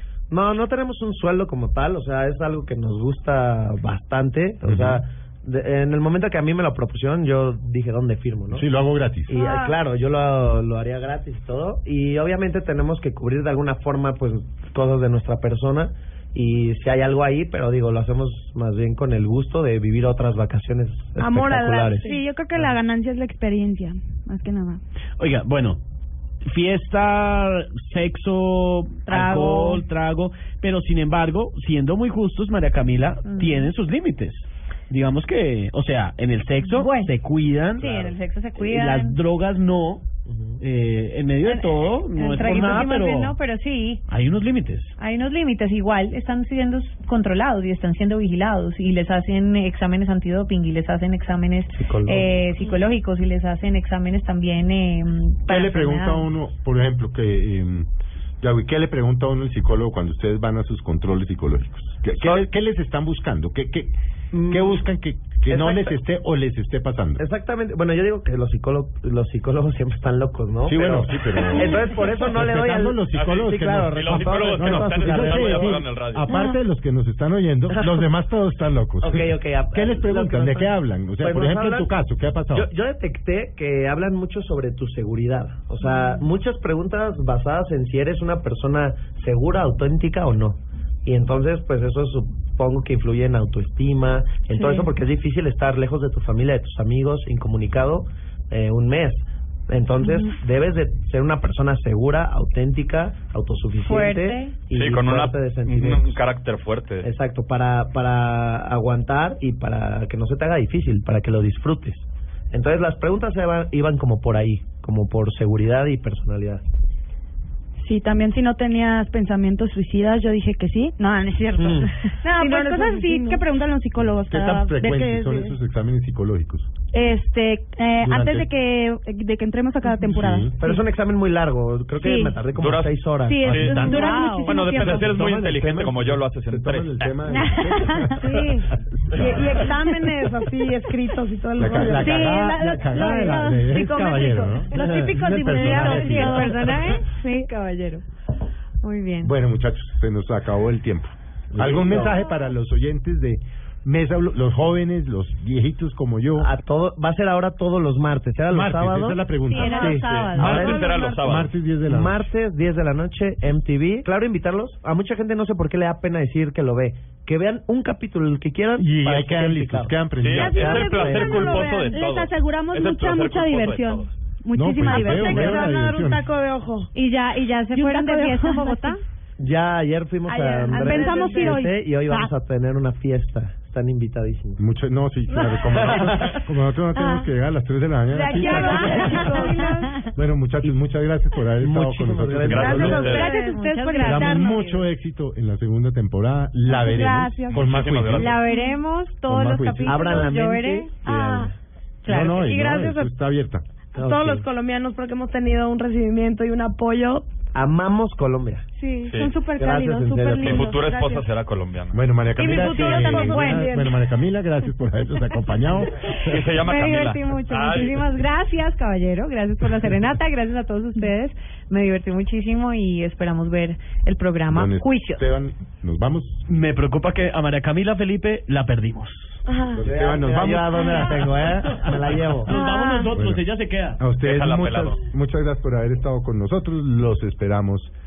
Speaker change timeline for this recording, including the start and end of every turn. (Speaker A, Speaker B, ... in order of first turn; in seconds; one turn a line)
Speaker A: 0.3-8.7
Speaker B: 4.7-5.0
Speaker B: 8.5-9.3
Speaker A: 9.3-22.1
Speaker C: 9.3-9.8
Speaker C: 21.2-22.2
Speaker D: 22.0-24.8
Speaker E: 25.2-25.8
Speaker E: 26.4-37.9
Speaker F: 29.1-29.8
Speaker F: 33.2-33.7
Speaker F: 36.7-37.1
Speaker F: 37.7-39.2
Speaker A: 37.8-38.1
Speaker E: 38.6-40.0
Speaker A: 40.3-40.6
Speaker E: 40.6-43.4
Speaker F: 41.4-44.0
Speaker A: 42.5-42.8
Speaker E: 44.1-44.9
Speaker F: 45.0-56.3
Speaker A: 51.7-52.3
Speaker B: 55.5-57.9
Speaker B: 58.4-63.9
Speaker G: 62.2-62.5
Speaker A: 64.3-64.8
Speaker B: 64.5-67.2
Speaker A: 65.5-66.0
Speaker A: 67.2-75.8
Speaker B: 70.7-82.7
Speaker G: 73.1-76.2
Speaker A: 79.0-81.9
Speaker A: 82.5-106.2
Speaker F: 94.5-94.9
Speaker F: 103.8-104.5
Speaker G: 104.7-107.1
Speaker A: 107.0-116.6
Speaker D: 117.8-125.6
Speaker A: 121.6-122.0
Speaker C: 122.2-123.4
Speaker B: 124.3-126.7
Speaker D: 126.9-130.7
Speaker B: 128.0-128.5
Speaker B: 130.0-130.6
Speaker A: 130.6-134.1
Speaker D: 132.0-132.4
Speaker G: 132.6-137.1
Speaker D: 133.3-135.1
Speaker B: 133.5-139.8
Speaker F: 133.8-134.7
Speaker C: 138.2-138.6
Speaker C: 139.2-146.4
Speaker B: 141.6-147.0
Speaker D: 142.1-146.4
Speaker A: 144.8-145.2
Speaker F: 145.5-148.0
Speaker F: 148.8-149.3
Speaker B: 149.2-156.5
Speaker A: 151.5-152.2
Speaker A: 156.4-161.1
Speaker B: 158.5-162.3
Speaker F: 159.5-161.2
Speaker G: 159.9-161.5
Speaker A: 161.9-170.0
Speaker B: 168.8-171.1
Speaker G: 170.2-174.1
Speaker C: 170.4-172.0
Speaker D: 170.5-175.8
Speaker A: 170.6-171.2
Speaker B: 174.5-176.3
Speaker C: 174.8-176.9
Speaker F: 176.9-179.0
Speaker D: 177.8-178.6
Speaker A: 179.4-184.6
Speaker C: 180.3-181.7
Speaker D: 180.7-182.3
Speaker B: 184.6-189.6
Speaker A: 185.7-186.4
Speaker C: 188.1-190.1
Speaker F: 188.5-189.7
Speaker D: 188.5-189.6
Speaker B: 190.1-193.2
Speaker A: 191.6-193.3
Speaker G: 192.5-193.4
Speaker C: 192.6-194.4
Speaker F: 193.1-194.8
Speaker D: 193.1-194.6
Speaker B: 194.0-198.4
Speaker C: 196.8-197.4
Speaker D: 196.9-197.2
Speaker G: 197.5-198.4
Speaker F: 198.2-200.9
Speaker B: 199.3-200.3
Speaker A: 199.8-201.5
Speaker C: 201.0-201.5
Speaker F: 202.1-202.5
Speaker B: 202.1-203.7
Speaker C: 202.1-203.1
Speaker A: 204.0-204.5
Speaker C: 204.0-207.3
Speaker A: 207.5-208.7
Speaker C: 208.8-211.2
Speaker G: 209.1-209.3
Speaker D: 209.2-211.0
Speaker A: 209.6-210.7
Speaker G: 210.4-212.0
Speaker B: 211.9-216.4
Speaker C: 212.4-214.0
Speaker D: 212.6-213.7
Speaker G: 216.2-218.1
Speaker F: 216.6-225.2
Speaker B: 224.5-226.4
Speaker E: 226.5-229.4
Speaker C: 229.5-229.9
Speaker B: 229.7-232.0
Speaker A: 229.8-232.5
Speaker E: 232.4-234.0
Speaker C: 232.5-233.1
Speaker B: 233.1-233.4
Speaker B: 234.0-237.9
Speaker G: 234.2-235.0